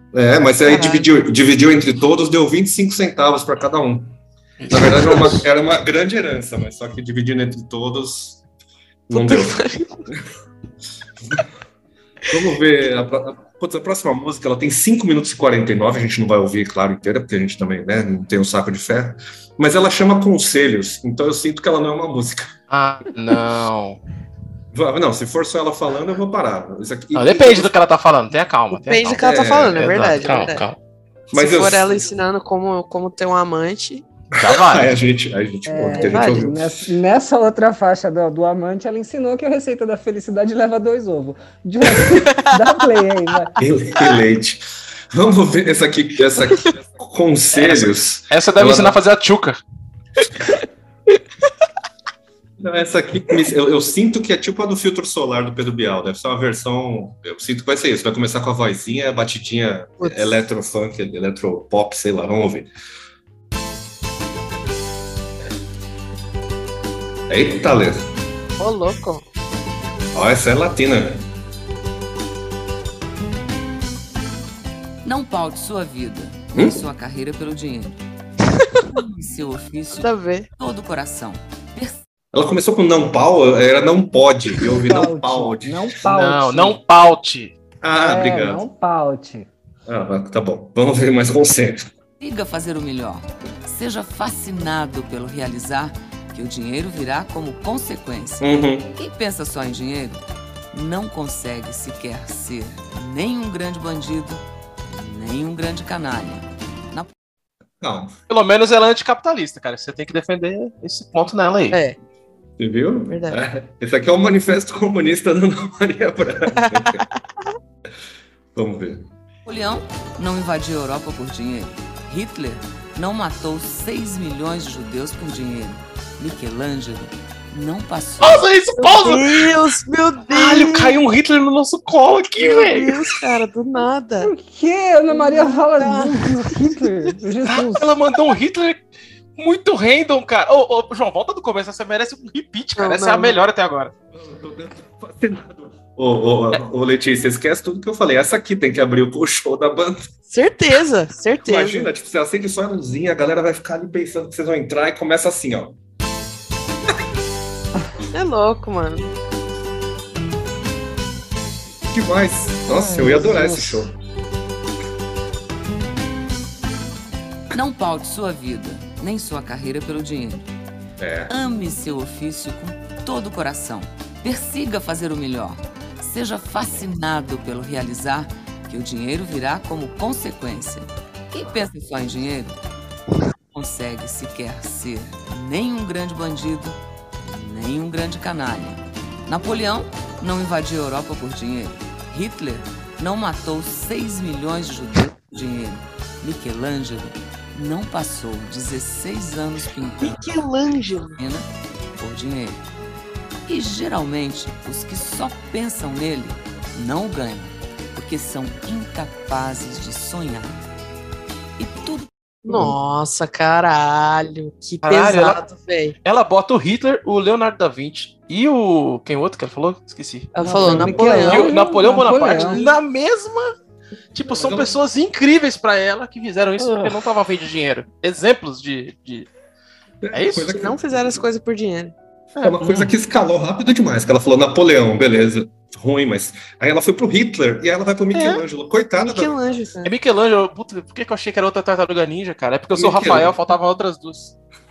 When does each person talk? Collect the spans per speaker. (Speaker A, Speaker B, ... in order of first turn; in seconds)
Speaker A: 0.1-4.2, 4.7-8.4, 9.1-9.6, 11.2-11.5, 12.3-22.5, 24.7-27.7, 29.1-30.1, 31.3-32.0, 34.4-36.7, 43.6-49.0, 52.6-62.7, 67.3-68.1, 70.1-71.2, 76.5-76.8, 82.3-85.9, 87.8-88.7, 89.9-91.9, 98.4-98.9, 107.8-108.1, 112.6-117.0, 118.5-119.1, 144.1-150.1, 151.4-155.8, 161.9-164.0, 171.0-171.3, 224.3-224.8, 230.0-231.2, 232.4-239.4, 242.8-243.4
Speaker B: 0.7-1.1, 9.1-10.0, 28.7-30.6, 31.3-34.1, 36.0-36.5, 42.0-42.4, 60.0-60.4, 68.6-69.2, 80.0-80.5, 113.1-113.4, 116.6-117.0, 128.8-131.0, 132.4-134.3, 135.1-136.3, 142.8-143.4, 150.3-151.9, 158.1-159.1, 200.0-201.2, 212.4-216.0, 220.3-221.5, 222.4-222.7, 230.4-231.9, 239.0-239.9
Speaker C: 4.6-5.4, 22.7-24.0, 27.1-30.8, 34.4-35.0, 47.5-49.6, 86.1-87.5, 108.3-111.8, 128.2-129.5, 130.3-133.1, 137.5-138.8, 139.4-143.9, 214.8-215.4, 216.0-223.5, 224.1-229.3, 230.1-230.6, 232.4-232.6, 238.1-238.4, 239.8-244.3
Speaker D: 35.7-43.5, 84.7-86.8, 88.0-89.5, 134.2-138.0, 162.7-163.9, 220.4-222.6, 226.6-226.9
Speaker E: 75.0-78.0, 78.9-82.0, 92.2-107.1, 119.5-128.5, 167.5-170.5, 171.3-182.6, 183.5-200.2, 201.2-202.6, 203.5-210.7, 211.6-212.1